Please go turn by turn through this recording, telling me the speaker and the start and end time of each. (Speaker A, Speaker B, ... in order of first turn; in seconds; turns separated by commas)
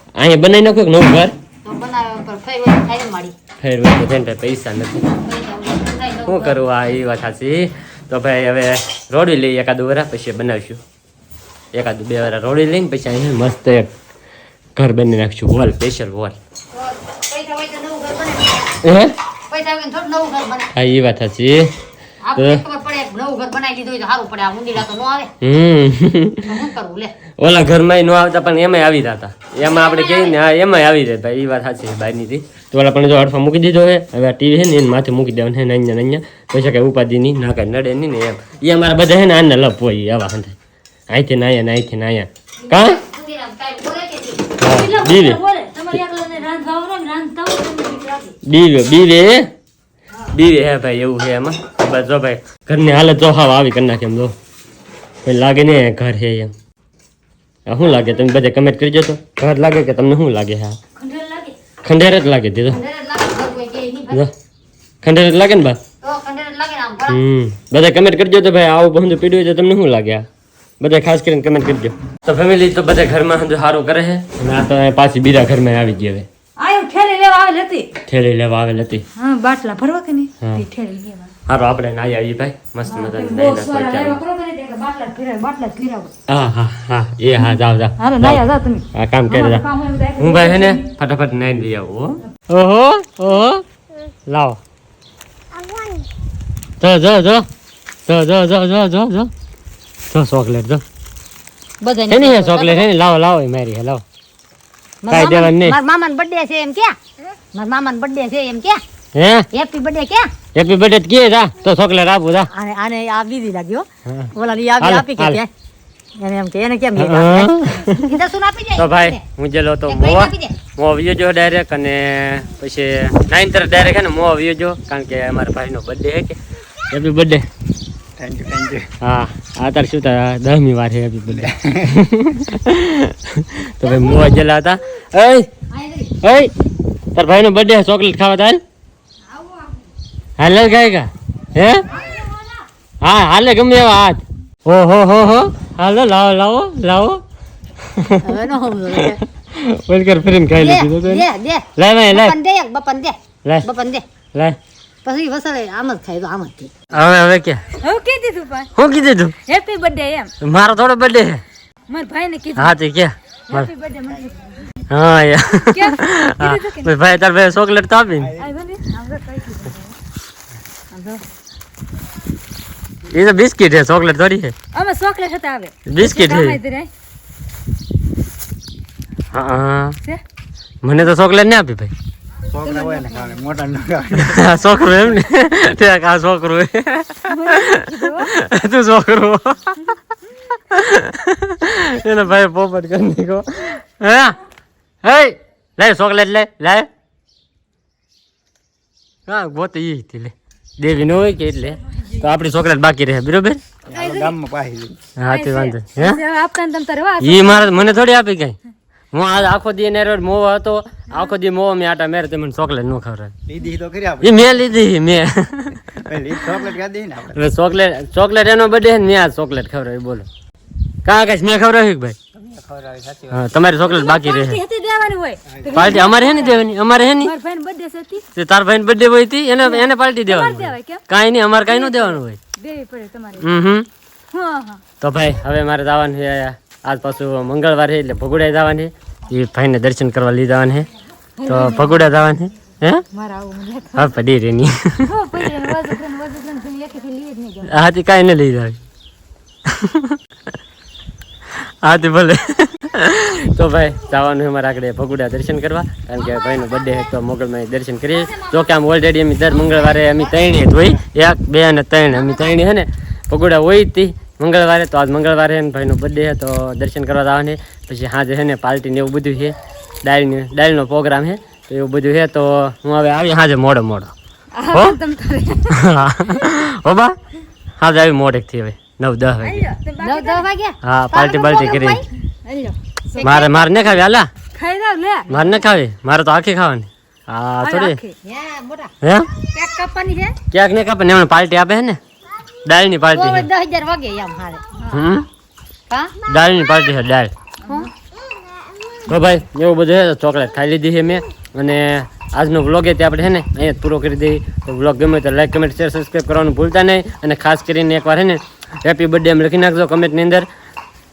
Speaker A: 0.2-1.3, Speaker B: 1.6-3.3, Speaker A: 3.6-5.1, Speaker B: 5.0-6.6, Speaker A: 6.2-10.8, Speaker A: 11.7-13.9, Speaker A: 14.8-16.4, Speaker B: 16.7-18.7, Speaker A: 18.8-19.1, Speaker B: 19.5-20.7, Speaker A: 20.7-21.7, Speaker B: 22.2-25.3, Speaker A: 22.4-22.6, Speaker A: 25.4-26.6, Speaker B: 26.4-27.1, Speaker A: 27.4-40.5, Speaker B: 29.6-30.4, Speaker A: 41.1-43.0, Speaker B: 42.6-44.5, Speaker A: 44.6-45.4, Speaker C: 44.6-48.3, Speaker A: 48.4-49.5, Speaker A: 50.3-54.3, Speaker A: 55.2-56.5, Speaker A: 57.6-60.8, Speaker C: 61.0-61.5, Speaker A: 61.8-62.8, Speaker B: 62.7-64.2, Speaker A: 65.0-65.8, Speaker B: 66.0-67.2, Speaker A: 67.1-70.3, Speaker A: 70.8-76.3, Speaker C: 76.6-77.9, Speaker A: 78.1-79.0, Speaker C: 79.2-81.3, Speaker A: 80.4-80.6, Speaker A: 81.5-84.2, Speaker C: 82.9-86.1, Speaker A: 86.3-89.7, Speaker C: 87.5-90.9, Speaker A: 90.2-93.6, Speaker A: 94.3-94.6, Speaker A: 96.8-97.5, Speaker A: 98.1-99.3, Speaker A: 100.1-100.8, Speaker B: 101.8-102.9, Speaker A: 102.1-104.0, Speaker B: 105.0-107.0, Speaker A: 105.1-105.8, Speaker B: 107.5-108.8, Speaker A: 109.1-109.5, Speaker B: 109.5-110.3, Speaker A: 110.5-112.5, Speaker B: 112.5-115.5, Speaker A: 114.0-115.4, Speaker B: 116.2-119.2, Speaker A: 117.0-118.2, Speaker A: 118.8-126.4, Speaker B: 119.9-120.5, Speaker A: 126.9-127.5, Speaker D: 128.2-128.9, Speaker A: 129.0-135.5, Speaker D: 131.4-131.8, Speaker B: 135.7-136.1, Speaker A: 136.2-136.5, Speaker A: 137.1-138.6, Speaker C: 139.4-139.8, Speaker A: 140.4-141.8, Speaker C: 142.0-142.2, Speaker A: 143.0-147.2, Speaker A: 147.8-148.4, Speaker B: 148.2-149.2, Speaker A: 148.9-152.3, Speaker B: 150.6-154.0, Speaker B: 155.0-156.7, Speaker A: 156.9-157.7, Speaker C: 157.8-158.7, Speaker A: 158.8-159.3, Speaker C: 159.4-160.3, Speaker A: 160.4-161.4, Speaker C: 161.9-162.7, Speaker A: 162.6-163.7, Speaker C: 163.5-164.7, Speaker A: 164.9-168.4, Speaker C: 165.6-166.9, Speaker C: 168.4-169.9, Speaker B: 170.9-171.2, Speaker A: 173.1-174.5, Speaker C: 174.7-176.9, Speaker A: 175.9-176.6, Speaker A: 179.3-180.0, Speaker A: 180.8-181.9, Speaker D: 182.5-184.4, Speaker C: 182.6-183.4, Speaker A: 184.1-189.8, Speaker C: 187.2-188.3, Speaker A: 190.7-194.4, Speaker A: 195.0-196.9, Speaker A: 199.3-203.6, Speaker D: 203.9-205.0, Speaker C: 203.9-204.3, Speaker A: 205.2-206.2, Speaker C: 205.3-207.8, Speaker A: 207.2-208.6, Speaker A: 209.1-213.3, Speaker D: 213.5-214.6, Speaker A: 214.2-216.1, Speaker D: 215.9-217.4, Speaker A: 217.3-220.3, Speaker A: 221.0-222.2, Speaker D: 222.3-223.4, Speaker A: 223.3-224.6, Speaker C: 223.8-226.6, Speaker D: 225.5-226.0, Speaker A: 225.7-227.3, Speaker C: 227.2-228.2, Speaker A: 228.3-232.4, Speaker C: 229.6-231.0, Speaker C: 231.6-233.4, Speaker A: 233.4-233.9, Speaker C: 234.3-234.8, Speaker A: 235.0-240.9, Speaker C: 241.4-242.1, Speaker A: 241.4-243.0, Speaker C: 243.1-244.1, Speaker A: 243.9-245.7, Speaker C: 245.1-247.7, Speaker A: 247.6-248.8, Speaker A: 249.7-250.2, Speaker A: 251.5-274.1, Speaker C: 258.2-258.6, Speaker C: 259.6-260.2, Speaker C: 262.1-262.6, Speaker C: 274.6-275.8, Speaker A: 274.7-275.0, Speaker A: 275.7-277.2, Speaker A: 277.8-279.6, Speaker C: 279.4-280.4, Speaker B: 280.0-282.0, Speaker A: 280.8-282.0, Speaker C: 282.4-283.4, Speaker B: 283.1-283.7, Speaker A: 283.2-284.3, Speaker C: 284.5-285.4, Speaker A: 285.3-288.0, Speaker C: 287.6-288.1, Speaker B: 288.2-288.9, Speaker A: 289.0-289.3, Speaker B: 289.5-290.4, Speaker A: 290.5-292.0, Speaker A: 292.6-293.5, Speaker B: 293.1-295.0, Speaker A: 294.9-295.3, Speaker B: 295.9-296.1, Speaker A: 296.2-297.3, Speaker A: 299.0-310.5